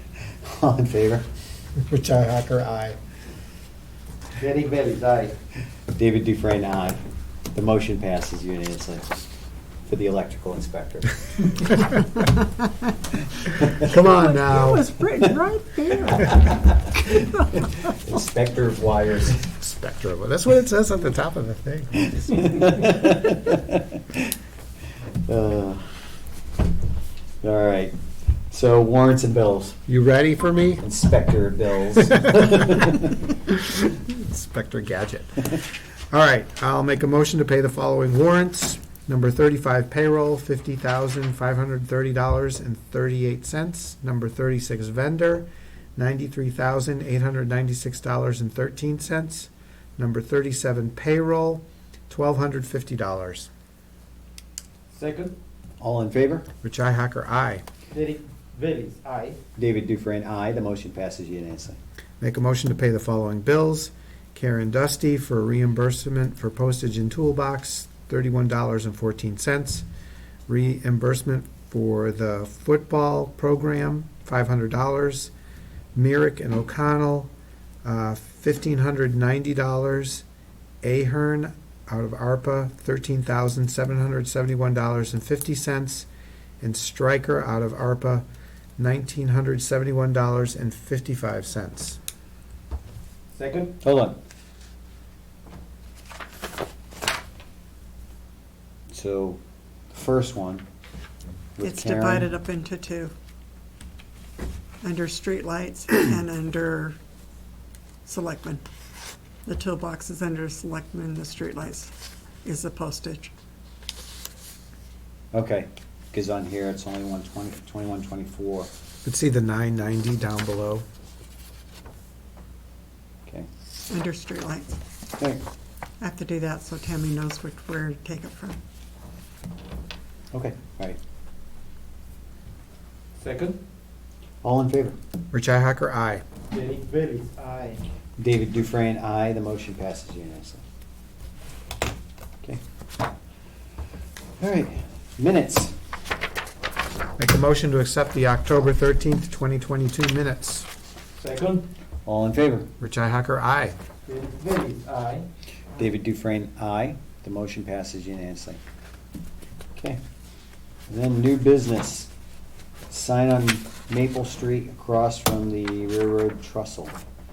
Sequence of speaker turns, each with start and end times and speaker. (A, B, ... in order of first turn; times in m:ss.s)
0:00.4-0:01.3 A
0:01.9-0:03.0 B
0:04.4-0:05.3 C
0:05.9-0:07.0 A
0:07.5-0:09.3 A
0:09.9-0:11.2 A
0:13.8-0:14.8 B
0:13.9-0:17.9 D
0:17.9-0:19.4 A
0:19.5-0:22.6 B
0:22.2-0:24.2 A
0:25.2-0:26.2 A
0:27.4-0:28.0 A
0:28.5-0:29.8 A
0:29.9-0:30.8 B
0:30.8-0:33.0 A
0:33.8-0:53.5 B
0:54.9-0:55.3 C
0:55.8-0:56.5 A
0:56.6-0:57.6 B
0:57.9-0:59.4 C
0:59.6-1:01.8 A
1:02.2-1:09.8 B
1:10.5-1:15.3 B
1:15.9-1:17.3 B
1:17.8-1:20.2 B
1:20.8-1:26.1 B
1:26.6-1:28.2 B
1:28.8-1:32.0 B
1:33.3-1:33.7 C
1:33.8-1:34.2 A
1:38.9-1:39.4 A
1:39.9-1:40.6 A
1:41.6-1:42.3 A
1:41.6-1:43.1 D
1:44.8-1:47.0 D
1:48.0-1:48.6 D
1:49.4-1:51.9 D
1:52.4-1:53.3 D
1:55.3-1:58.7 A
1:59.0-2:00.8 B
2:03.9-2:04.8 D
2:05.1-2:05.4 A
2:06.0-2:08.6 D
2:10.3-2:11.0 A
2:13.2-2:13.6 C
2:14.4-2:15.0 A
2:15.3-2:16.2 B
2:16.5-2:17.8 C
2:18.2-2:20.6 A
2:24.4-2:25.7 A
2:27.2-2:30.7 B
2:31.2-2:31.6 C
2:32.0-2:32.7 A
2:32.8-2:33.8 B
2:34.0-2:35.3 C
2:35.8-2:38.6 A
2:40.9-2:42.1 A
2:42.9-2:47.0 A